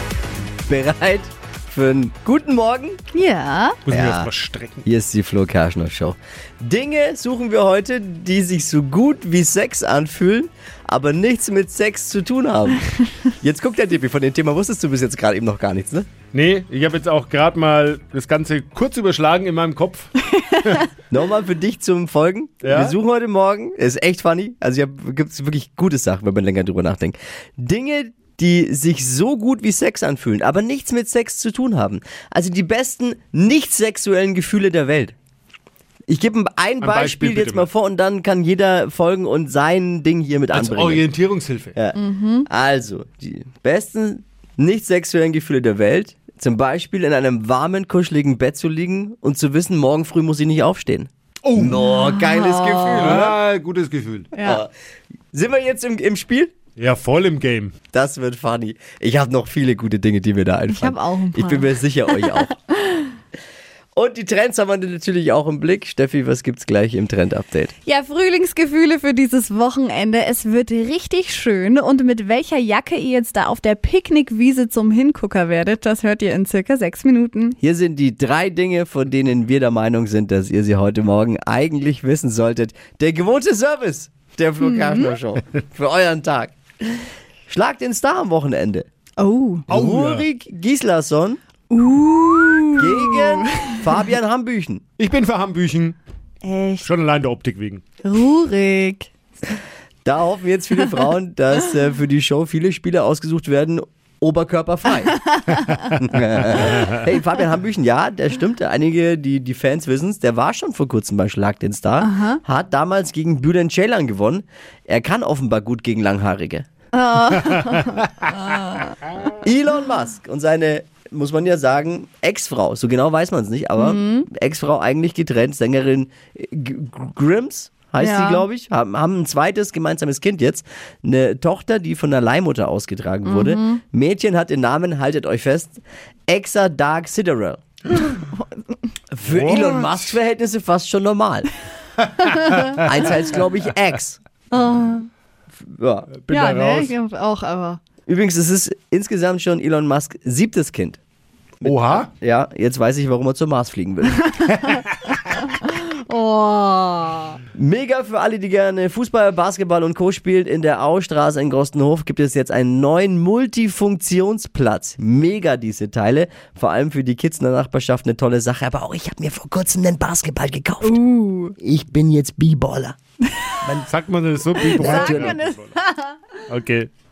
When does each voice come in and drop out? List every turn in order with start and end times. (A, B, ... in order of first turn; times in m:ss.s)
0:00.7-0:03.0 A
0:03.1-0:03.8 B
0:03.8-0:04.9 C
0:03.9-0:04.3 A
0:04.8-0:16.1 A
0:16.3-0:20.1 C
0:20.6-0:20.9 C
0:21.1-0:35.1 A
0:22.6-0:23.0 C
0:36.1-0:41.0 A
0:36.8-0:37.7 C
0:40.5-0:41.8 C
0:41.8-0:53.4 A
0:41.9-0:42.5 B
0:51.4-0:51.9 C
0:51.7-0:53.3 B
0:52.9-0:54.3 C
0:54.3-0:54.6 B
0:54.4-0:54.7 A
0:55.3-0:56.5 A
0:56.8-0:57.7 C
0:57.9-1:02.6 A
1:00.7-1:03.1 B
1:03.9-1:07.7 A
1:07.8-1:17.6 B
1:17.6-1:28.9 A
1:24.6-1:25.1 B
1:29.2-1:29.7 B
1:29.7-1:30.2 C
1:29.7-1:31.4 A
1:31.7-1:33.9 B
1:32.8-1:34.8 A
1:35.0-1:36.0 C
1:36.4-1:36.9 B
1:36.8-1:37.8 C
1:38.0-1:39.1 B
1:40.0-1:45.4 A
1:45.3-1:45.8 B
1:45.9-1:56.7 A
1:52.0-1:52.4 B
1:56.9-1:59.0 B
1:59.3-2:17.6 A
2:03.8-2:04.3 B
2:08.0-2:08.5 B
2:13.2-2:13.8 B
2:19.1-2:21.5 A
2:19.2-2:20.2 C
2:22.2-2:22.7 B
2:22.3-2:22.7 C
2:22.8-2:24.2 A
2:24.5-2:25.1 B
2:25.6-2:26.1 A
2:26.1-2:26.9 C
2:26.3-2:27.8 B
2:28.1-2:31.0 A
2:31.6-2:34.2 A
2:31.6-2:32.1 C
2:34.4-2:37.4 B
2:37.5-2:51.0 A
2:50.8-2:51.6 B
2:51.6-2:53.0 A
2:53.6-2:55.7 C
2:54.6-2:56.2 B
2:54.7-2:55.4 A
2:56.5-2:56.9 C